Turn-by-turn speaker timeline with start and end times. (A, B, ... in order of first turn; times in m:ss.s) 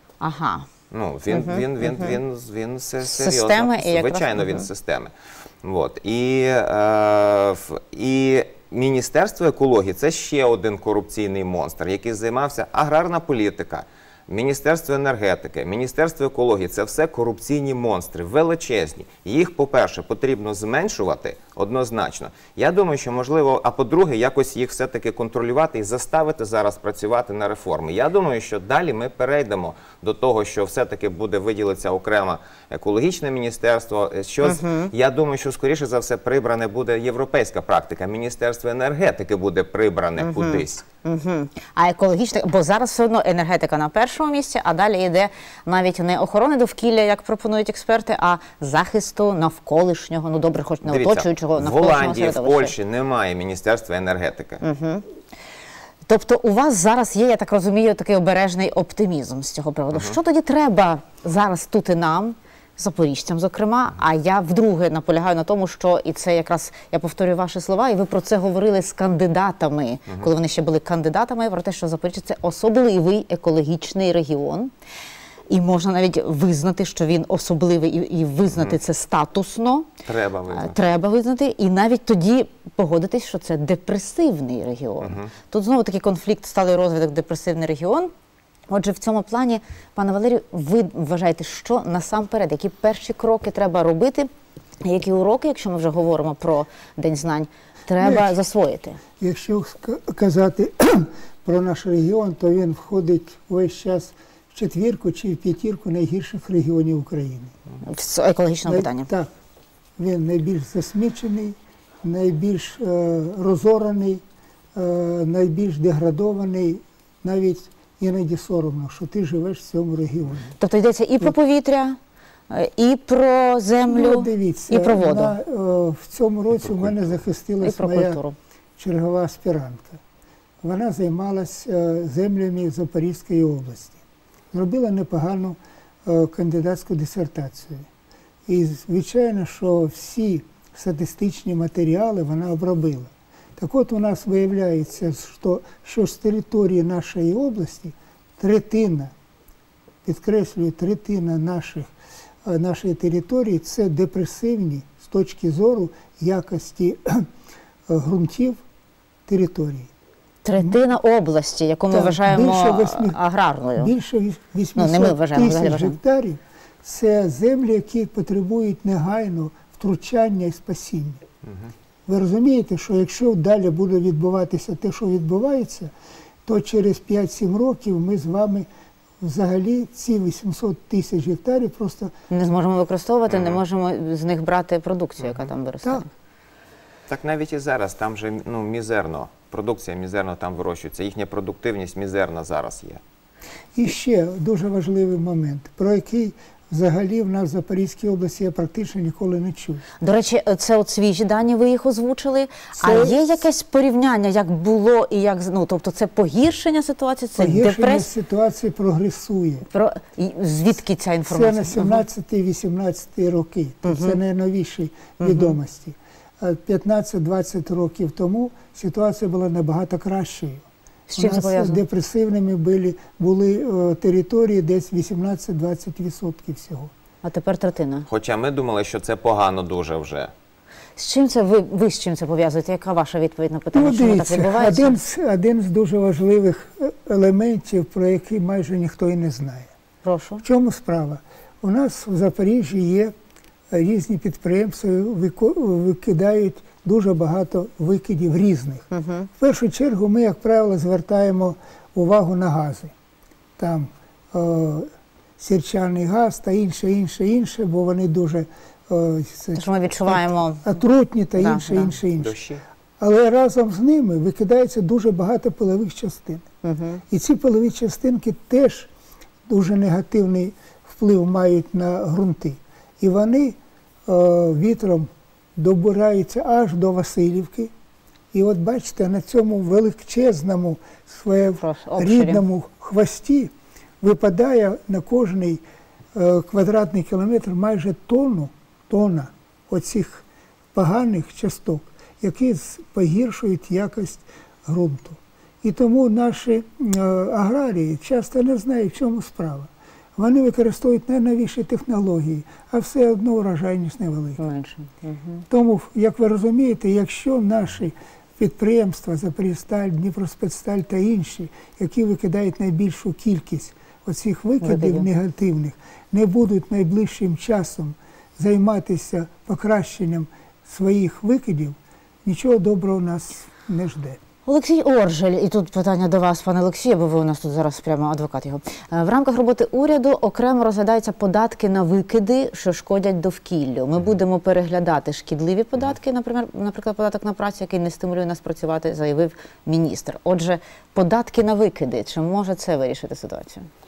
0:00.2-0:00.7 A
0:00.9-0:05.1 B
0:01.3-0:02.2 A
0:03.0-0:04.7 A
0:05.6-0:40.8 B
0:34.4-0:34.9 A
0:40.2-0:52.7 A
0:50.9-0:54.6 B
0:54.6-0:55.0 A
0:56.1-1:14.7 A
1:15.5-1:19.9 A
1:20.1-1:20.8 B
1:20.5-1:28.1 A
1:25.0-1:25.3 B
1:28.7-1:34.3 A
1:34.8-1:39.0 A
1:38.0-1:38.3 C
1:39.2-1:47.5 C
1:47.8-1:49.1 A
1:48.7-1:49.3 C
1:50.0-1:54.2 C
1:54.8-2:00.5 C
2:00.6-2:02.0 A
2:02.5-2:05.4 A
2:03.9-2:08.2 C
2:06.8-2:07.1 B
2:07.6-2:08.4 A
2:08.8-2:10.0 C
2:10.6-2:14.0 C
2:14.5-2:17.9 C
2:18.5-2:29.1 C
2:30.0-2:31.9 C
2:32.4-2:37.3 C
2:37.9-2:38.6 C
2:39.3-2:39.9 C
2:40.4-2:43.9 A
2:41.9-2:43.2 C
2:43.8-2:51.2 C
2:44.8-2:46.0 A
2:52.1-2:55.9 C
2:56.5-2:58.7 C
2:59.2-3:02.1 C
3:02.3-3:06.1 A
3:03.3-3:03.6 B
3:07.1-3:13.0 B
3:13.8-3:19.8 C
3:20.0-3:28.1 A
3:22.7-3:23.2 C
3:27.4-3:29.7 C
3:29.7-3:32.0 A
3:31.3-3:46.9 C
3:33.8-3:34.2 A
3:35.2-3:35.5 A
3:41.1-3:41.8 A
3:47.2-3:48.1 A
3:48.1-3:50.3 B
3:51.0-3:55.0 A
3:53.7-3:59.7 C
4:00.0-4:00.4 A
4:00.4-4:03.1 C
4:03.7-4:08.9 C
4:08.9-4:09.3 A
4:09.4-4:12.9 C
4:13.6-4:22.4 C
4:19.6-4:20.7 A
4:21.4-4:22.0 A
4:22.2-4:22.6 B
4:23.0-4:26.5 C
4:26.6-4:27.0 A
4:27.1-4:28.9 C
4:29.5-4:37.7 C
4:38.3-4:45.6 C
4:41.6-4:42.4 A
4:46.1-5:04.4 C
5:04.4-5:05.4 A
5:05.5-5:24.2 C
5:14.6-5:15.1 A
5:24.5-5:43.7 A